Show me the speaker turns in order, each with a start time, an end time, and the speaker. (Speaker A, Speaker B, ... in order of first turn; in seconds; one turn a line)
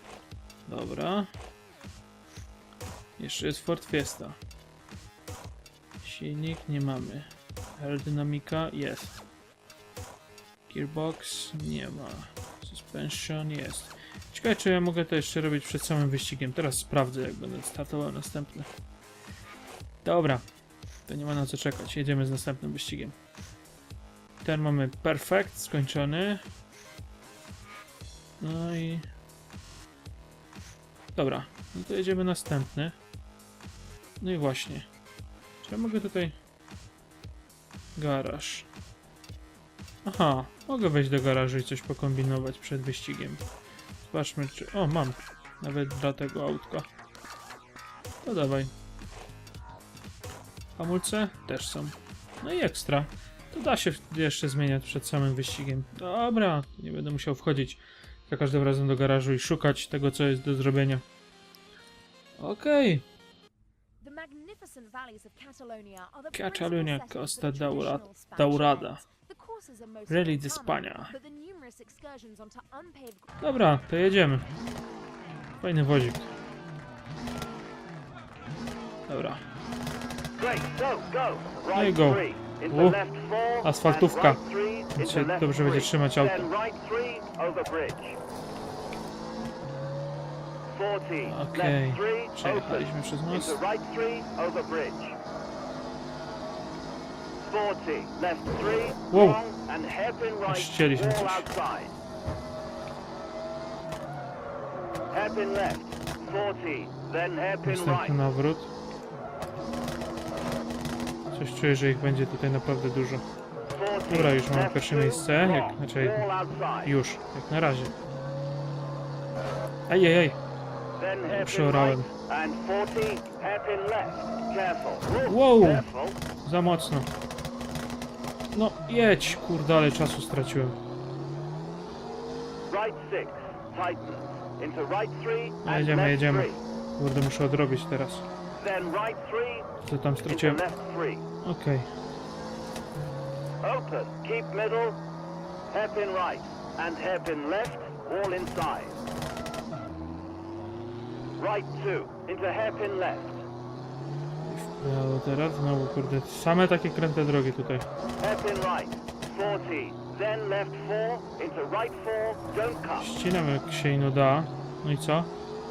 Speaker A: 0.7-1.3
Speaker A: 3.2-4.4
Speaker A: 6.0-9.2
Speaker A: 10.7-18.7
Speaker A: 20.0-20.4
Speaker A: 21.1-23.2
Speaker A: 24.4-26.4
Speaker A: 28.4-29.1
Speaker A: 31.1-33.0
Speaker A: 34.2-34.9
Speaker A: 35.6-36.4
Speaker A: 38.0-38.7
Speaker A: 40.0-43.4
Speaker A: 44.0-46.9
Speaker A: 48.2-48.7
Speaker A: 50.8-61.0
Speaker A: 62.4-63.0
Speaker B: 64.0-73.4
Speaker A: 66.3-69.0
Speaker A: 70.1-71.1
Speaker A: 73.4-74.5
Speaker A: 75.6-76.3
Speaker A: 79.1-79.4
Speaker C: 80.4-88.2
Speaker A: 81.7-83.0
Speaker A: 83.6-84.4
Speaker A: 85.0-86.5
Speaker C: 90.7-95.2
Speaker A: 91.2-93.6
Speaker C: 97.4-102.0
Speaker A: 99.1-99.4
Speaker A: 100.5-101.5
Speaker C: 105.1-108.2
Speaker A: 107.6-108.7
Speaker A: 111.3-113.2
Speaker C: 113.7-116.9
Speaker A: 114.1-116.2
Speaker A: 116.8-117.9
Speaker A: 119.9-120.4
Speaker C: 121.0-126.2
Speaker A: 121.3-122.1
Speaker A: 125.3-125.9
Speaker A: 126.4-127.1
Speaker A: 128.5-130.8
Speaker C: 132.7-136.6
Speaker A: 135.7-138.3
Speaker C: 138.6-139.7
Speaker A: 139.8-140.6
Speaker C: 140.2-141.3
Speaker A: 141.4-141.9
Speaker C: 143.6-145.0
Speaker C: 145.7-149.0
Speaker C: 151.4-153.4
Speaker A: 154.4-157.9
Speaker C: 158.2-163.1
Speaker A: 163.0-165.3